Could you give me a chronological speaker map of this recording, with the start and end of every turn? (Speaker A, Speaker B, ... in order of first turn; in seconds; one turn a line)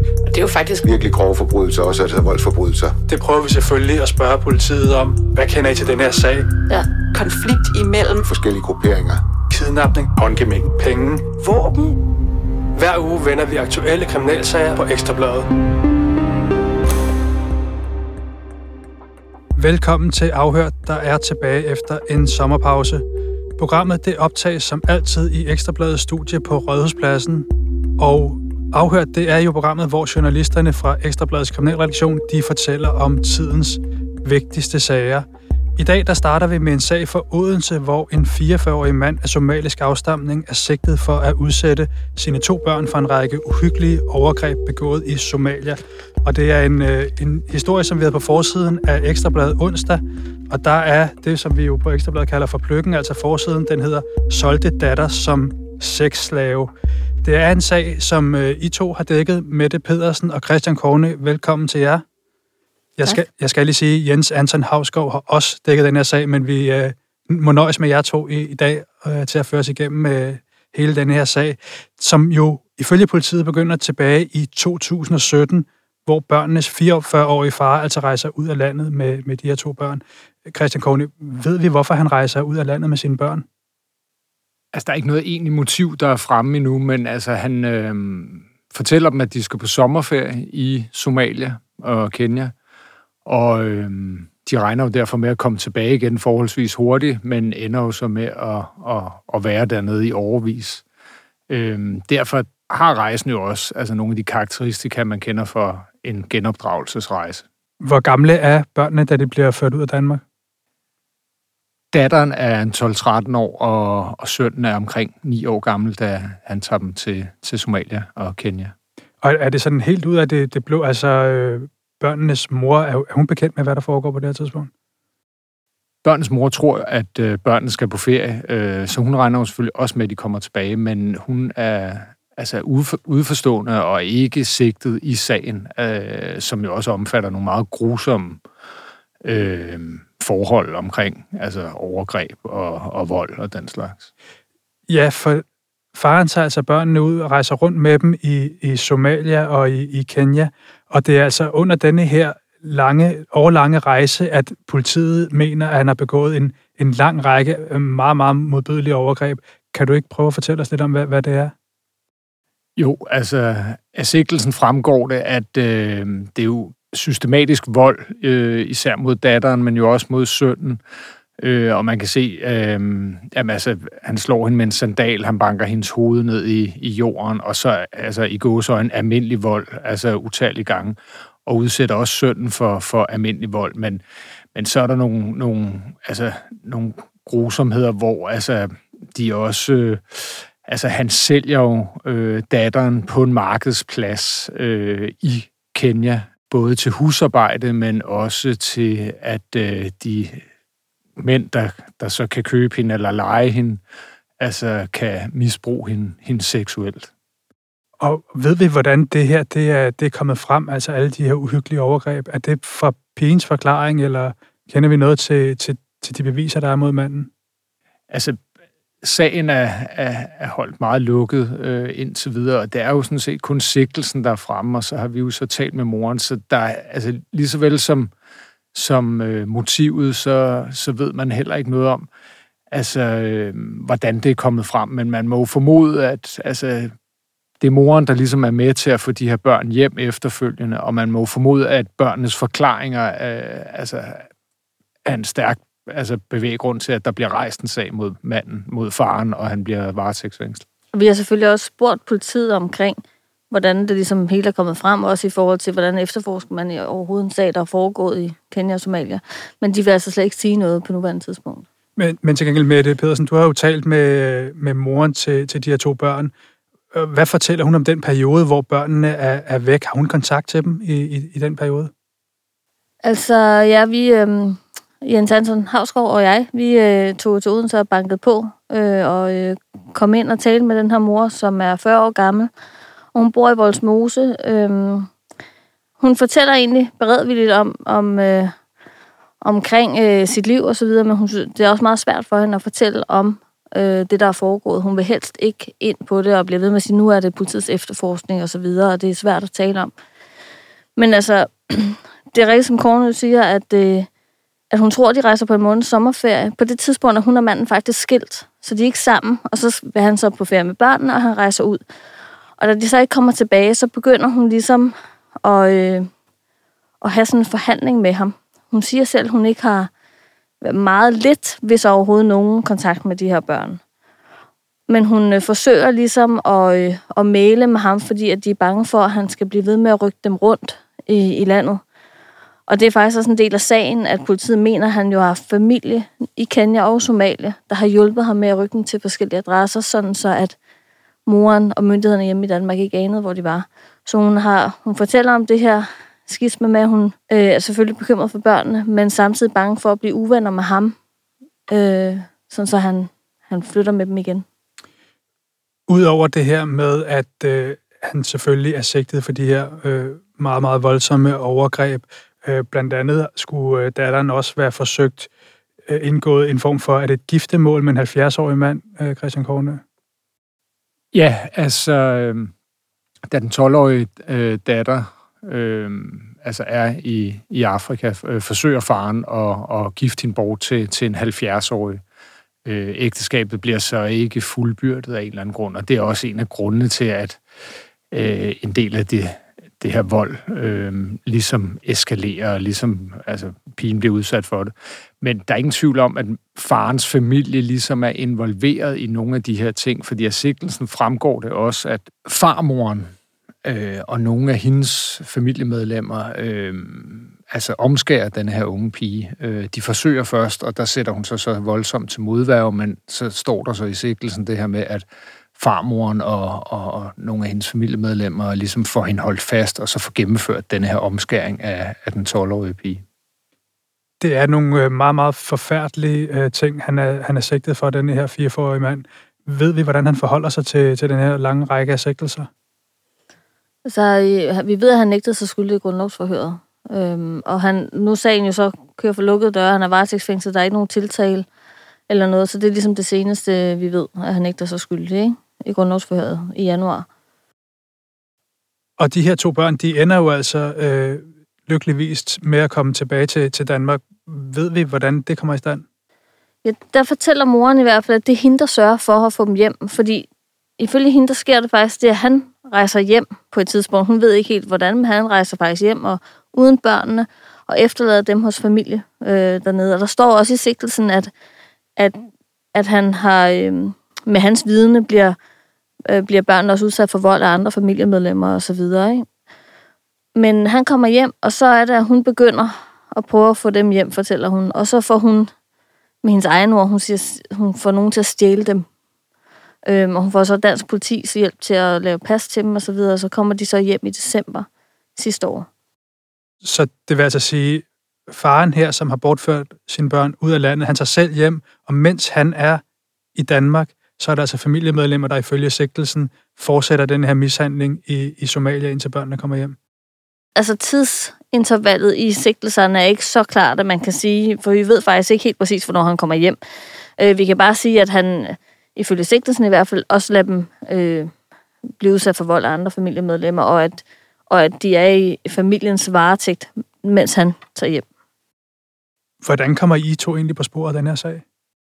Speaker A: 0.2-0.8
Speaker B: 0.8-3.0
Speaker C: 3.1-6.5
Speaker A: 6.7-8.3
Speaker B: 8.2-9.2
Speaker C: 9.5-11.3
Speaker A: 11.4-12.0
Speaker C: 12.7-15.5
Speaker C: 19.6-23.0
Speaker C: 23.6-35.2
Speaker C: 35.8-56.7
Speaker C: 57.2-62.0
Speaker C: 63.0-83.4
Speaker D: 84.7-92.5
Speaker D: 93.2-100.8
Speaker D: 101.5-107.4
Speaker C: 107.8-110.2
Speaker D: 111.9-118.7
Speaker C: 119.2-124.7
Speaker D: 126.0-138.4
Speaker D: 139.2-144.1
Speaker C: 144.9-145.4
Speaker C: 145.9-161.5
Speaker D: 162.8-170.8
Speaker D: 171.4-184.0
Speaker D: 184.5-200.4
Speaker D: 201.2-203.8
Speaker D: 204.4-207.1
Speaker C: 208.0-217.3
Speaker D: 218.1-218.4
Speaker D: 219.0-228.1
Speaker D: 228.7-232.1
Speaker D: 232.7-236.9
Speaker D: 237.6-244.3
Speaker D: 245.0-250.6
Speaker E: 250.9-261.6
Speaker C: 262.0-266.3
Speaker C: 266.9-271.9
Speaker E: 273.0-282.5
Speaker E: 283.1-285.1
Speaker E: 286.0-288.5
Speaker E: 289.4-299.9
Speaker E: 301.0-304.1
Speaker E: 304.7-311.8
Speaker E: 312.6-316.1
Speaker E: 317.0-319.9
Speaker E: 320.6-323.8
Speaker E: 324.9-331.8
Speaker E: 332.7-340.5
Speaker E: 341.2-350.9
Speaker E: 351.7-354.4
Speaker C: 355.9-365.3
Speaker C: 365.9-369.8
Speaker D: 371.1-372.5
Speaker D: 373.3-382.0
Speaker D: 382.6-387.4
Speaker D: 388.1-403.1
Speaker D: 403.6-415.0
Speaker D: 415.6-423.0
Speaker C: 424.2-432.5
Speaker E: 433.9-441.4
Speaker E: 442.1-447.1
Speaker C: 449.0-455.8
Speaker E: 456.6-460.3
Speaker E: 460.8-471.3
Speaker E: 472.0-475.4
Speaker E: 476.1-479.2
Speaker E: 480.4-485.5
Speaker E: 486.2-488.8
Speaker E: 489.9-495.7
Speaker C: 496.6-502.8
Speaker C: 503.4-509.8
Speaker E: 510.6-516.6
Speaker E: 517.2-521.3
Speaker E: 522.0-528.0
Speaker C: 529.4-531.4